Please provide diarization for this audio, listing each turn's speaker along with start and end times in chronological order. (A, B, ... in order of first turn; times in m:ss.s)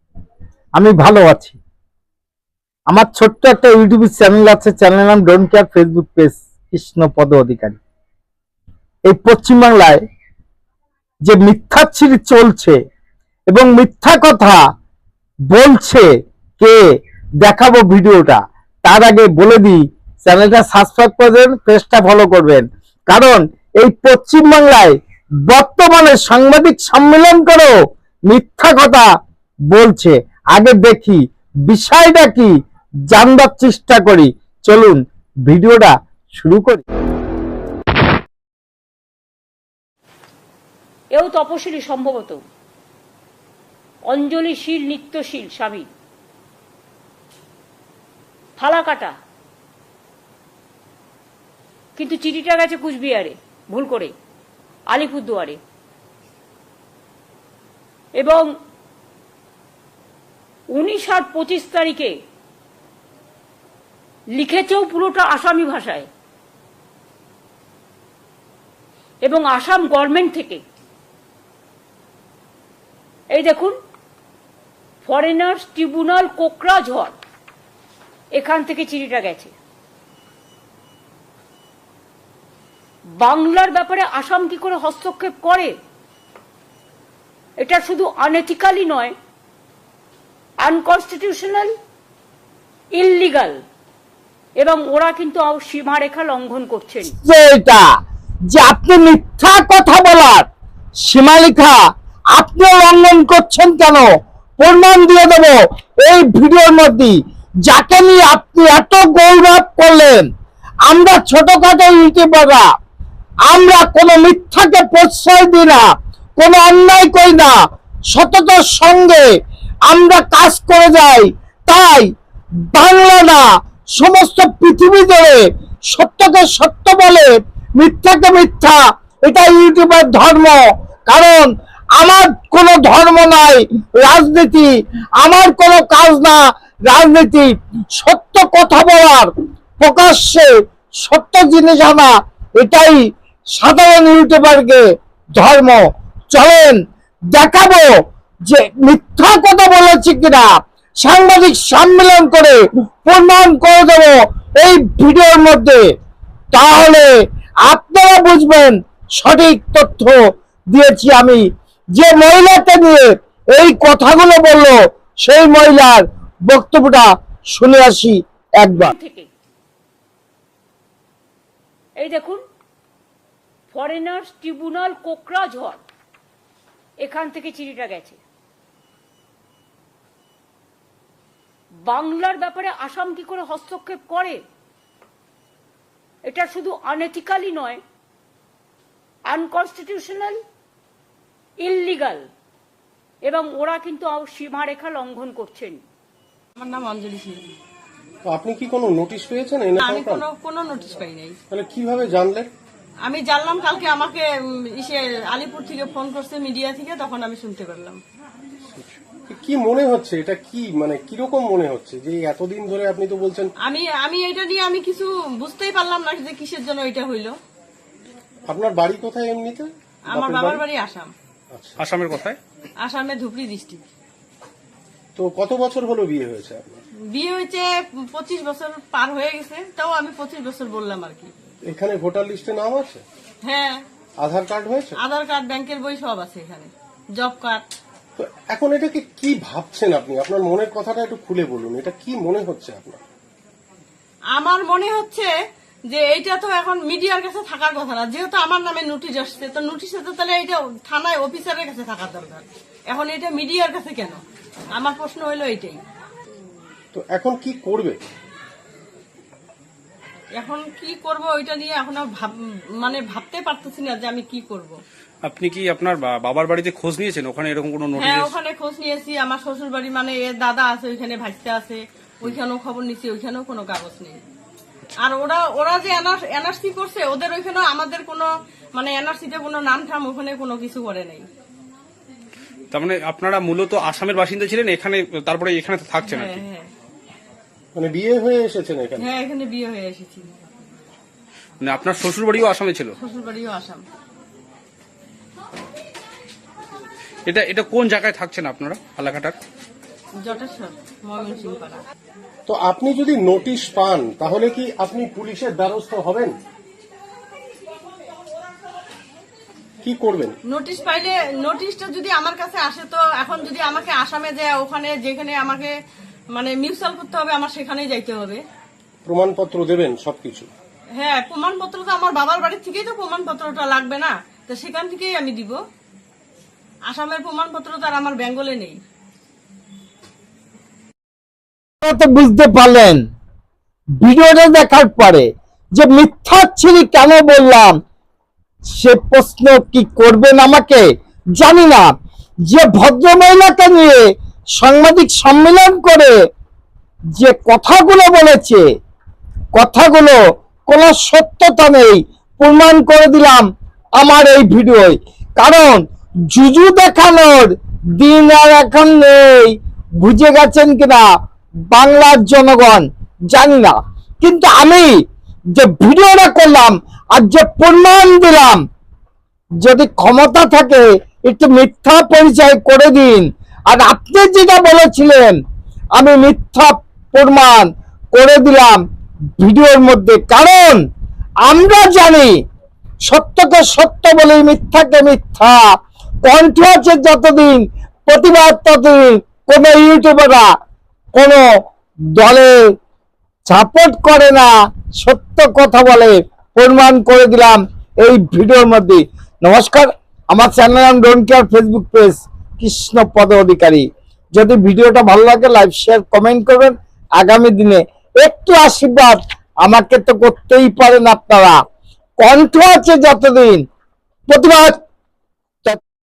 0:00.8-0:01.6 A
0:02.9-0:07.8 A
0:09.1-0:10.0 A
0:11.2-0:12.8 A
0:13.5-0:14.6 A
0:15.5-0:16.1 A
0:17.4-0:24.9 A
0:25.5-0:27.7 A
0:28.3-0:29.1 A
0:29.7-0:32.5 A
0:33.1-0:36.8 A
0:41.1-0:42.4 B
0:44.1-0:45.9 B
0:48.6-0:49.1 B
0:52.0-0:54.1 B
0:54.9-0:55.6 B
0:58.2-0:58.5 B
1:00.7-1:02.1 B
1:04.3-1:06.1 B
1:09.2-1:10.6 B
1:13.3-1:13.7 B
1:15.0-1:17.2 B
1:18.3-1:19.5 B
1:23.2-1:25.7 B
1:27.6-1:29.1 B
1:30.6-1:31.7 B
1:32.9-1:33.6 B
1:34.6-1:37.1 B
1:37.2-1:37.8 A
1:38.5-1:40.4 A
1:41.0-1:41.8 A
1:42.4-1:44.1 A
1:44.6-1:50.2 A
1:50.9-1:52.6 A
1:53.5-1:55.8 A
1:56.4-1:57.5 A
1:58.1-1:59.3 A
1:59.9-2:02.1 A
2:02.7-2:03.4 A
2:04.0-2:19.3 A
2:19.8-2:20.5 A
2:21.0-2:24.8 A
2:25.4-2:26.8 A
2:27.3-2:27.9 A
2:28.4-2:30.5 A
2:31.0-2:35.8 A
2:36.5-2:37.1 A
2:37.7-2:40.2 A
2:40.7-2:41.4 A
2:41.9-2:48.9 A
2:48.8-2:49.3 B
2:52.0-2:52.4 B
2:53.7-2:55.8 B
2:57.0-2:58.2 B
3:01.8-3:04.4 B
3:06.2-3:07.8 B
3:09.3-3:10.4 B
3:11.6-3:12.2 B
3:13.2-3:15.8 B
3:16.6-3:17.4 C
3:18.2-3:20.2 D
3:19.8-3:21.4 C
3:21.5-3:22.5 D
3:23.0-3:28.0 C
3:28.8-3:33.5 D
3:33.6-3:37.3 C
3:38.5-3:40.6 D
3:40.1-3:41.1 C
3:41.5-3:41.8 D
3:41.8-3:42.4 E
3:42.8-3:43.8 C
3:45.2-3:46.8 D
3:47.1-3:51.3 C
3:51.6-3:53.0 D
3:53.4-3:53.8 C
3:54.2-3:55.0 D
3:55.0-3:57.6 C
3:58.2-4:03.0 D
4:04.3-4:05.3 C
4:05.9-4:14.2 C
4:14.8-4:15.8 C
4:16.9-4:18.0 D
4:20.4-4:22.3 C
4:22.8-4:24.7 C
4:25.2-4:28.3 E
4:28.0-4:34.2 C
4:35.0-4:41.2 C
4:42.7-4:46.4 E
4:46.0-4:46.7 C
4:47.7-4:49.1 D
4:49.0-4:50.3 C
4:51.6-4:52.9 E
4:53.0-4:53.8 C
4:57.3-4:59.4 E
5:00.2-5:01.8 C
5:02.5-5:06.3 D
5:09.8-5:10.4 D
5:10.5-5:15.7 C
5:16.3-5:18.4 C
5:19.0-5:20.5 D
5:21.0-5:25.6 C
5:26.9-5:28.8 C
5:31.8-5:33.0 A
5:34.0-5:37.7 A
5:38.7-5:40.8 A
5:41.4-5:41.9 A
5:42.5-5:44.0 A
5:44.6-5:46.1 A
5:47.2-5:48.6 A
5:49.5-5:53.4 A
5:54.0-6:01.0 A
6:01.7-6:04.9 A
6:05.5-6:08.6 A
6:09.6-6:15.4 A
6:16.0-6:18.8 A
6:19.4-6:20.8 A
6:21.4-6:22.3 A
6:23.1-6:25.6 A
6:26.2-6:30.5 A
6:31.1-6:31.4 A
6:32.2-6:32.5 A
6:33.5-6:51.6 A
6:52.2-6:53.6 A
6:54.3-6:54.8 A